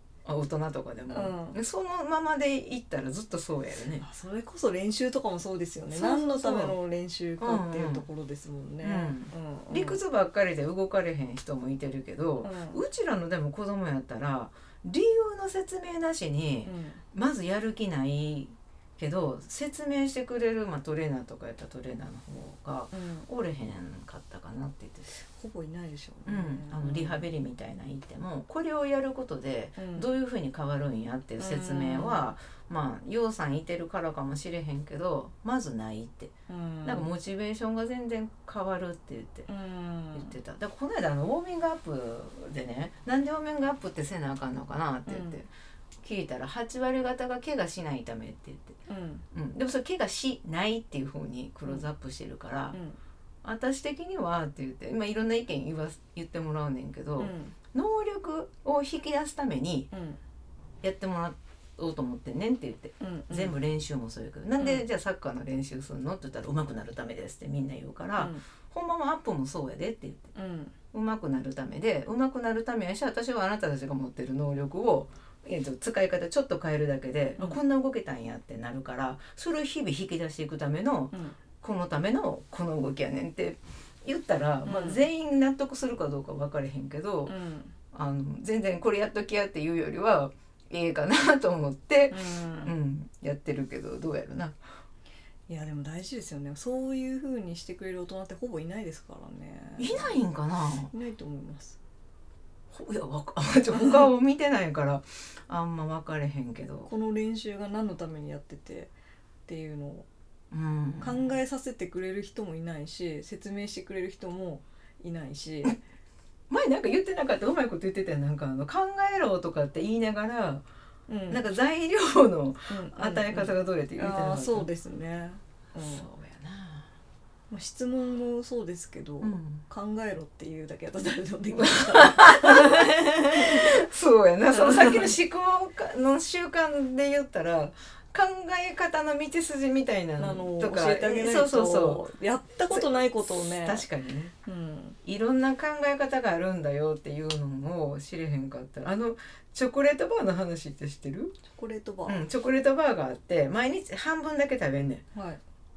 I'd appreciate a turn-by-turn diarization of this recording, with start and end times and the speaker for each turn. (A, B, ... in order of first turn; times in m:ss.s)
0:00.2-0:04.0 A
0:01.1-0:01.6 B
0:03.9-0:10.0 B
0:05.9-0:06.8 A
0:07.4-0:08.0 A
0:08.8-0:25.1 A
0:12.4-0:12.8 B
0:16.6-0:17.0 B
0:22.9-0:23.3 B
0:25.2-0:27.3 B
0:26.2-0:39.5 A
0:29.8-0:30.1 B
0:31.4-0:32.3 B
0:36.5-0:37.1 B
0:39.5-0:40.3 B
0:40.1-0:45.5 A
0:45.0-0:45.4 B
0:46.0-0:48.8 A
0:48.9-0:49.2 B
0:49.3-0:52.8 A
0:52.7-0:53.0 B
0:53.4-0:59.9 A
0:57.2-0:57.6 B
0:59.9-1:00.2 B
1:00.8-1:10.3 A
1:03.0-1:03.6 B
1:04.6-1:04.8 B
1:08.2-1:08.4 B
1:10.3-1:10.7 B
1:10.9-1:27.4 A
1:17.4-1:17.6 B
1:21.1-1:21.4 B
1:24.6-1:25.0 B
1:27.2-1:27.7 B
1:27.9-1:34.6 A
1:32.1-1:32.7 B
1:35.5-1:40.2 B
1:39.8-1:40.9 A
1:40.9-1:41.8 B
1:42.7-1:46.9 A
1:46.8-1:48.9 B
1:49.4-1:50.0 B
1:50.5-1:51.4 A
1:51.0-1:55.8 B
1:56.5-2:00.6 A
2:01.1-2:01.4 B
2:01.3-2:04.7 A
2:02.7-2:06.1 B
2:05.8-2:06.9 A
2:07.5-2:13.7 B
2:09.2-2:09.6 A
2:11.5-2:22.0 A
2:14.5-2:15.1 B
2:20.2-2:23.9 B
2:22.7-2:24.3 A
2:24.4-2:25.0 B
2:25.0-2:31.4 A
2:31.5-2:32.3 B
2:32.1-2:35.0 A
2:35.1-2:35.4 B